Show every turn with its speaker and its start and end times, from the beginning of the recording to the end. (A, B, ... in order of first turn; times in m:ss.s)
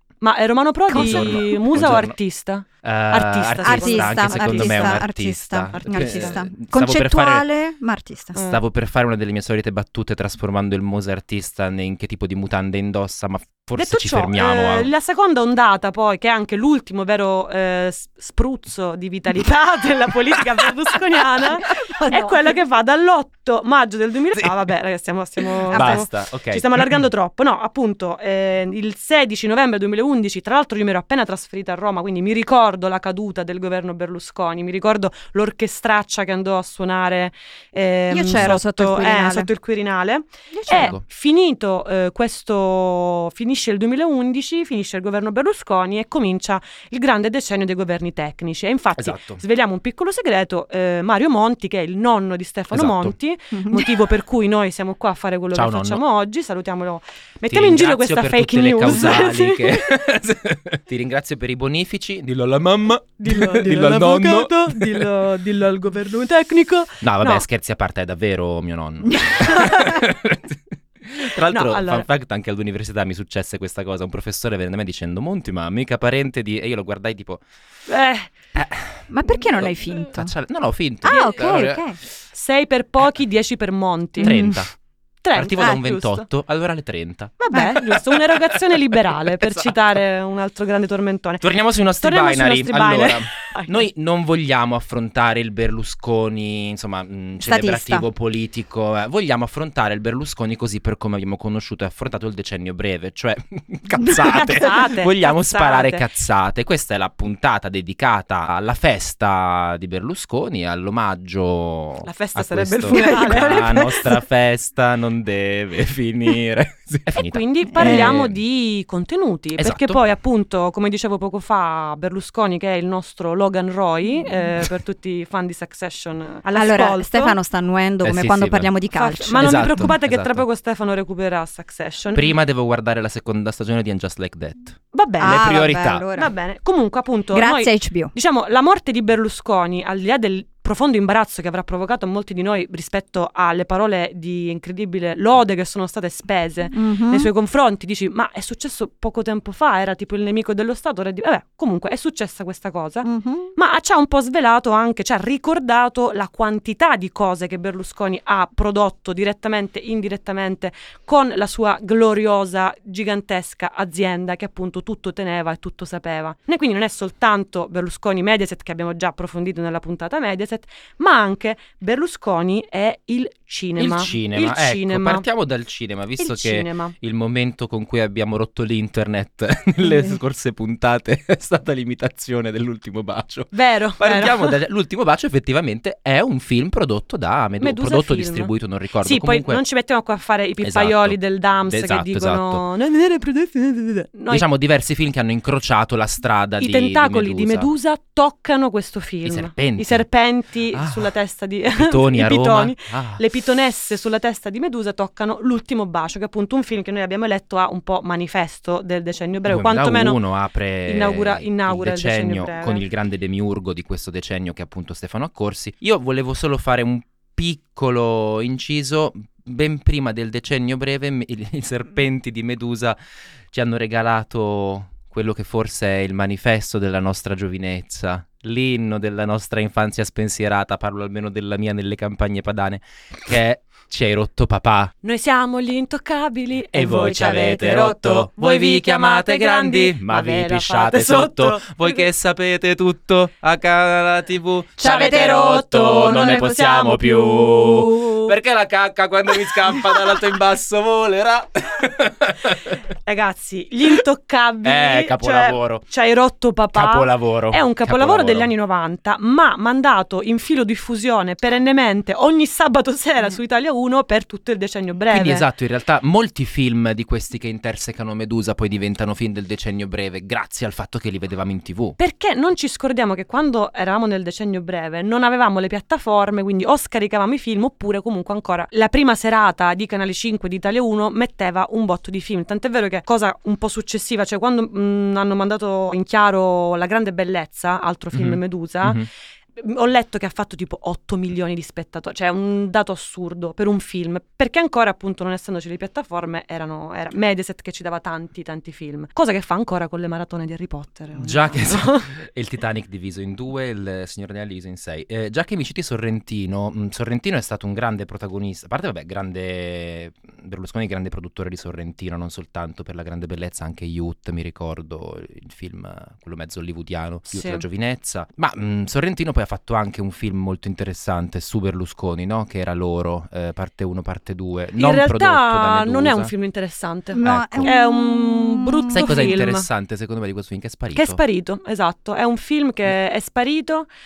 0:00.2-0:05.0 A
0:00.9-0:01.5 B
0:00.9-0:02.1 C
0:02.8-0:07.4 C
0:03.6-0:08.3 B
0:05.7-0:06.4 A
0:08.3-0:08.6 A
0:08.3-0:14.9 C
0:13.7-0:59.9 A
0:22.0-0:22.3 B
0:25.7-0:27.0 C
0:25.7-0:26.0 B
0:38.1-0:39.5 B
0:40.5-0:41.0 B
0:40.7-0:41.0 C
0:49.0-0:49.4 C
0:52.7-0:53.2 C
0:53.5-0:53.9 B
0:55.5-0:56.0 C
0:57.5-1:05.1 C
1:03.2-1:07.4 A
1:07.0-1:17.4 C
1:11.5-1:12.0 A
1:17.9-1:18.3 A
1:18.5-1:21.9 C
1:19.1-1:20.3 B
1:21.0-1:22.0 B
1:21.1-1:21.4 A
1:22.3-1:24.3 A
1:24.2-1:24.6 B
1:24.2-1:24.7 C
1:25.2-1:26.2 A
1:25.3-1:29.7 C
1:27.4-1:31.4 A
1:27.5-1:27.8 B
1:31.4-1:58.4 C
1:32.0-1:33.8 A
1:37.4-1:38.0 B
1:44.2-1:46.0 A
1:52.0-1:53.8 A
1:52.9-1:54.2 B
1:57.1-2:07.4 A
1:57.8-1:58.2 B
1:59.6-2:00.0 C
2:06.5-2:09.9 B
2:08.0-2:08.7 C
2:08.9-2:12.3 A
2:09.3-2:10.4 C
2:12.1-2:16.0 C
2:14.9-2:15.5 A
2:15.2-2:16.3 B
2:16.1-2:55.2 A
2:17.3-2:18.1 B
2:26.7-2:27.3 B
2:33.0-2:33.5 B
2:53.8-3:09.6 C
2:56.2-2:56.9 A
3:03.5-3:04.6 A
3:07.6-3:08.5 A
3:09.0-3:14.4 A
3:10.6-3:12.6 C
3:14.3-3:17.7 C
3:16.6-3:30.2 A
3:19.2-3:20.1 C
3:20.7-3:21.1 C
3:21.7-3:23.2 C
3:29.4-3:43.0 C
3:30.8-3:32.8 A
3:43.5-3:54.9 C
3:55.0-4:02.0 A
3:56.7-4:12.8 C
4:04.8-4:06.6 B
4:04.8-4:08.3 A
4:13.0-4:25.4 A
4:14.6-4:15.8 C
4:16.7-4:18.5 C
4:25.1-4:32.0 C
4:32.0-4:49.0 A
4:48.1-4:49.1 C
4:49.6-5:02.1 A
5:01.2-5:26.3 C
5:17.3-5:17.6 A
5:24.8-5:29.6 A
5:27.1-5:29.4 B
5:27.2-5:27.7 C
5:28.9-5:31.2 C
5:30.9-5:33.9 A